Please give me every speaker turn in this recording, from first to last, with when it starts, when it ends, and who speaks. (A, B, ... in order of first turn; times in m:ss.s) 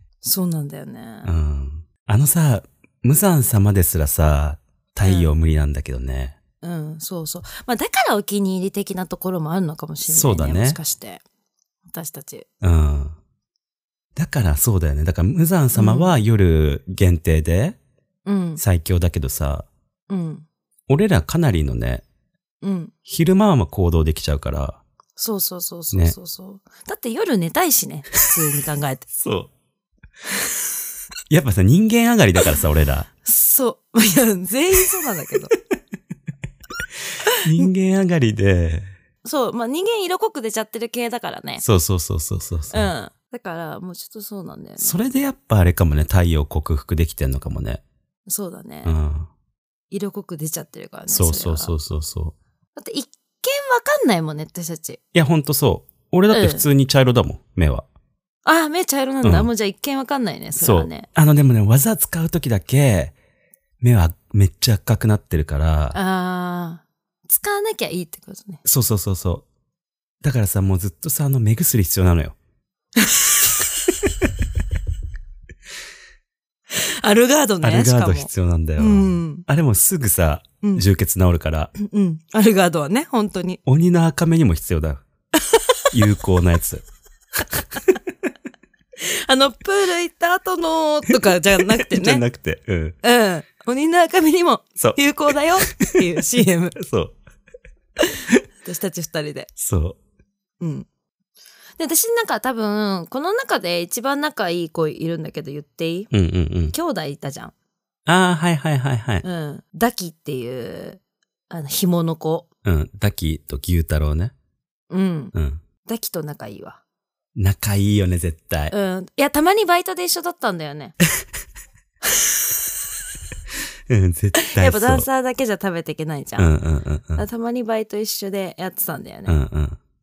0:00.2-0:01.3 A
0:01.2-0:06.4 B
0:05.0-0:05.3 A
0:06.6-0:11.2 A
0:10.1-0:10.8 B
0:11.9-0:12.4 A
0:12.6-0:13.2 B
0:14.2-0:17.8 B
0:15.7-0:16.2 A
0:18.2-0:18.6 A
0:18.6-0:19.6 B
0:20.1-0:20.4 A
0:20.9-0:22.0 B
0:22.6-0:22.9 A
0:23.0-0:24.8 B
0:25.2-0:29.1 A
0:29.2-0:29.5 B
0:31.3-0:33.1 B
0:33.2-0:35.5 A
0:37.2-0:37.6 A
0:37.4-0:38.9 B
0:39.2-0:41.6 A
0:41.6-0:42.9 B
0:42.7-0:45.0 A
0:44.8-0:47.8 B
0:48.3-0:49.0 A
0:48.8-0:49.3 B
0:49.9-0:51.7 A
0:51.1-0:52.3 B
0:52.8-0:55.0 A
0:55.1-0:57.8 B
0:56.3-0:56.6 A
0:58.4-1:01.1 A
0:59.2-0:59.5 B
1:00.6-1:03.1 B
1:03.8-1:06.0 B
1:05.9-1:08.6 A
1:08.6-1:09.4 B
1:10.2-1:12.4 B
1:13.0-1:13.5 A
1:16.7-1:19.4 A
1:17.6-1:21.7 B
1:21.8-1:23.6 A
1:23.6-1:25.0 B
1:25.4-1:25.8 A
1:25.9-1:26.8 B
1:29.0-1:32.2 A
1:31.3-1:33.0 B
1:33.0-1:36.8 A
1:35.7-1:36.0 B
1:36.8-1:37.2 B
1:38.6-1:39.5 A
1:39.6-1:40.0 B
1:40.6-1:40.9 A
1:41.8-1:46.1 A
1:46.1-1:46.7 B
1:46.7-1:47.5 A
1:48.0-1:49.2 B
1:49.2-1:52.5 A
1:52.6-1:54.3 B
1:54.9-1:56.8 A
1:55.3-1:55.6 B
1:57.4-1:58.7 B
1:58.7-2:01.0 A
2:03.9-2:05.1 B
2:04.4-2:06.5 A
2:06.4-2:07.2 B
2:07.2-2:09.4 A
2:09.3-2:09.8 B